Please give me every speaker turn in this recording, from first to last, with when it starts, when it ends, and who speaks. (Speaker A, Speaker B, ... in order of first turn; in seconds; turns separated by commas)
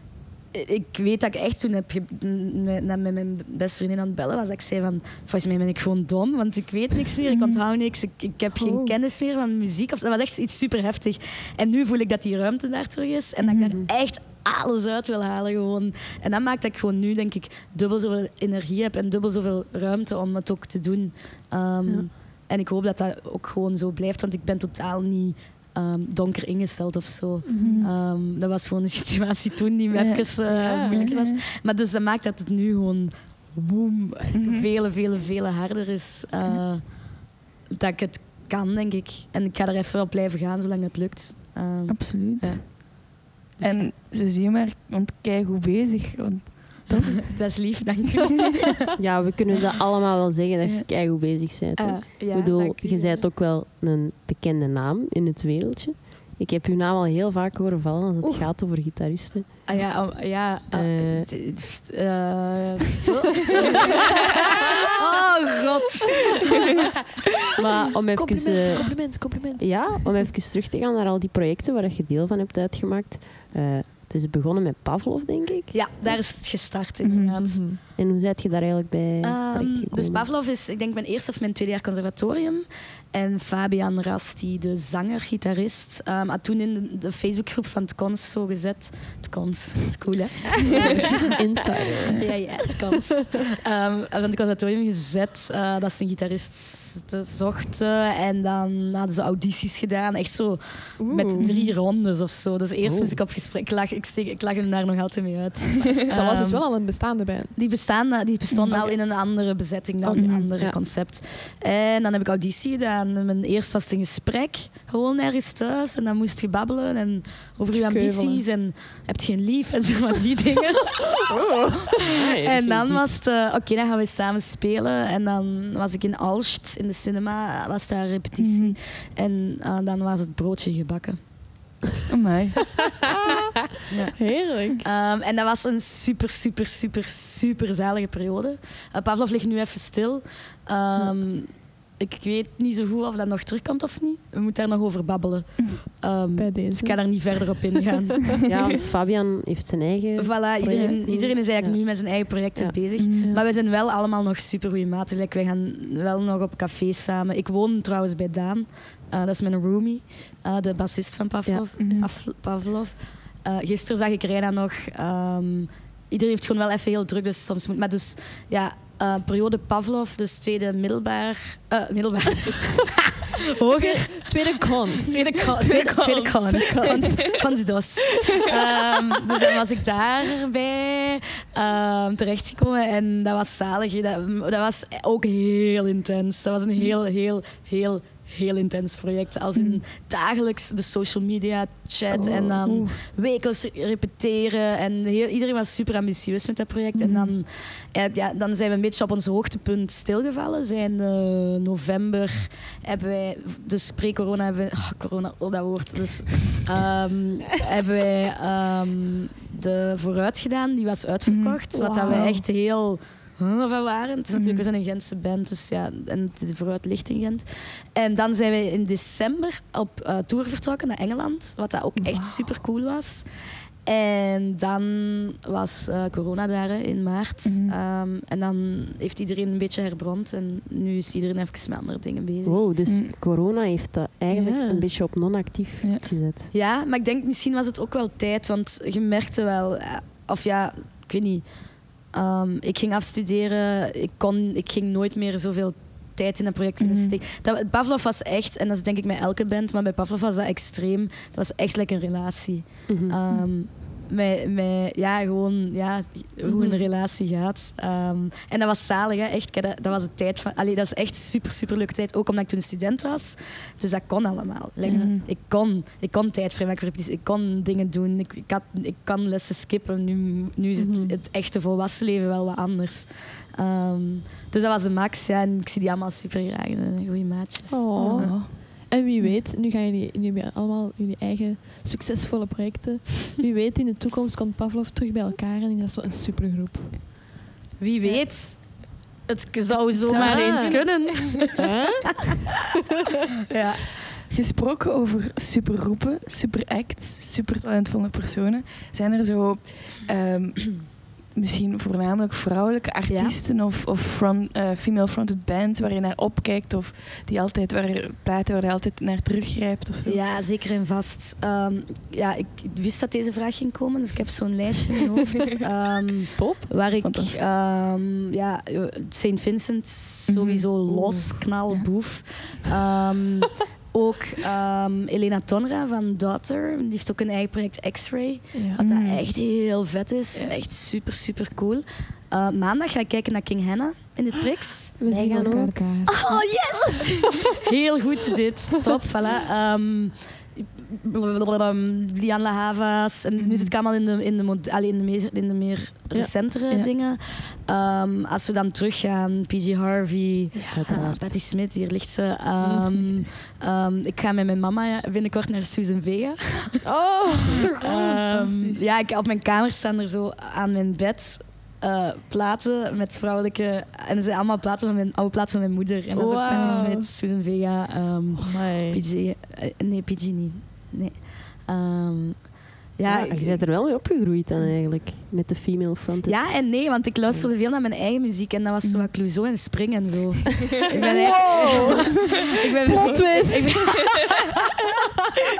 Speaker A: 0.5-37.1, Speaker B: 7.2-7.6, Speaker C: 8.5-8.9, Speaker B: 13.4-13.7, Speaker C: 21.8-22.1, Speaker C: 27.4-27.9, Speaker B: 27.6-27.9, Speaker B: 29.9-31.4, Speaker C: 30.5-31.1, Speaker A: 37.7-42.7, Speaker B: 41.9-42.8, Speaker A: 43.6-43.9, Speaker B: 43.6-47.9, Speaker A: 47.2-48.8, Speaker D: 49.0-59.9, Speaker A: 51.8-53.2, Speaker A: 59.6-64.1, Speaker D: 60.7-61.3, Speaker A: 64.9-66.4, Speaker D: 67.6-75.8, Speaker C: 68.1-70.1, Speaker A: 75.7-77.6, Speaker B: 77.0-77.3, Speaker C: 77.4-77.8, Speaker D: 77.9-80.2, Speaker A: 79.2-91.0, Speaker C: 90.7-92.9, Speaker A: 92.1-106.9, Speaker C: 101.0-101.5, Speaker B: 101.4-101.7, Speaker D: 102.8-103.2, Speaker C: 106.1-107.8, Speaker A: 107.5-121.2, Speaker B: 108.5-108.8, Speaker C: 108.6-109.0, Speaker C: 110.0-110.4, Speaker B: 110.1-110.4, Speaker C: 117.7-118.4, Speaker D: 122.1-123.0, Speaker A: 122.4-131.2, Speaker B: 128.4-128.8, Speaker B: 132.1-132.9, Speaker A: 133.9-148.5, Speaker C: 134.2-134.8, Speaker C: 146.3-147.6, Speaker D: 148.5-152.8, Speaker A: 150.2-223.3, Speaker B: 150.7-151.0, Speaker B: 153.0-153.3, Speaker C: 153.2-153.4, Speaker B: 161.8-162.1, Speaker C: 173.7-175.2, Speaker B: 175.6-177.4, Speaker C: 176.5-177.3, Speaker B: 189.6-189.8, Speaker B: 192.2-192.9, Speaker C: 196.9-197.3, Speaker B: 211.3-211.6, Speaker C: 211.7-212.4, Speaker B: 214.3-214.6, Speaker A: 223.8-232.7, Speaker B: 227.4-227.8, Speaker D: 232.4-236.5, Speaker B: 232.8-233.1, Speaker C: 234.3-234.9, Speaker B: 235.8-236.1, Speaker A: 236.5-278.3, Speaker B: 246.8-247.2, Speaker D: 252.9-253.2, Speaker C: 256.5-256.8, Speaker C: 264.8-265.1, Speaker B: 264.9-265.3, Speaker C: 270.8-271.2, Speaker C: 277.7-287.1, Speaker B: 277.9-279.4, Speaker A: 287.8-291.5, Speaker B: 289.9-291.1, Speaker C: 290.1-292.5, Speaker A: 293.5-293.9, Speaker B: 294.2-310.2, Speaker A: 303.1-303.4, Speaker A: 310.0-335.0, Speaker C: 316.4-316.7, Speaker B: 317.0-317.4, Speaker B: 320.3-320.7, Speaker C: 328.5-328.8, Speaker B: 328.8-329.2, Speaker C: 335.0-337.1, Speaker D: 335.0-335.9, Speaker A: 336.1-356.8, Speaker B: 343.4-343.7, Speaker C: 350.5-350.8, Speaker D: 350.7-351.2, Speaker C: 352.6-353.1, Speaker C: 356.8-358.8, Speaker A: 357.8-373.6, Speaker C: 366.1-367.1, Speaker B: 366.4-366.9, Speaker C: 368.4-369.0, Speaker D: 373.2-377.5, Speaker A: 376.2-384.3, Speaker B: 378.8-379.1, Speaker C: 381.0-384.1, Speaker B: 383.0-383.6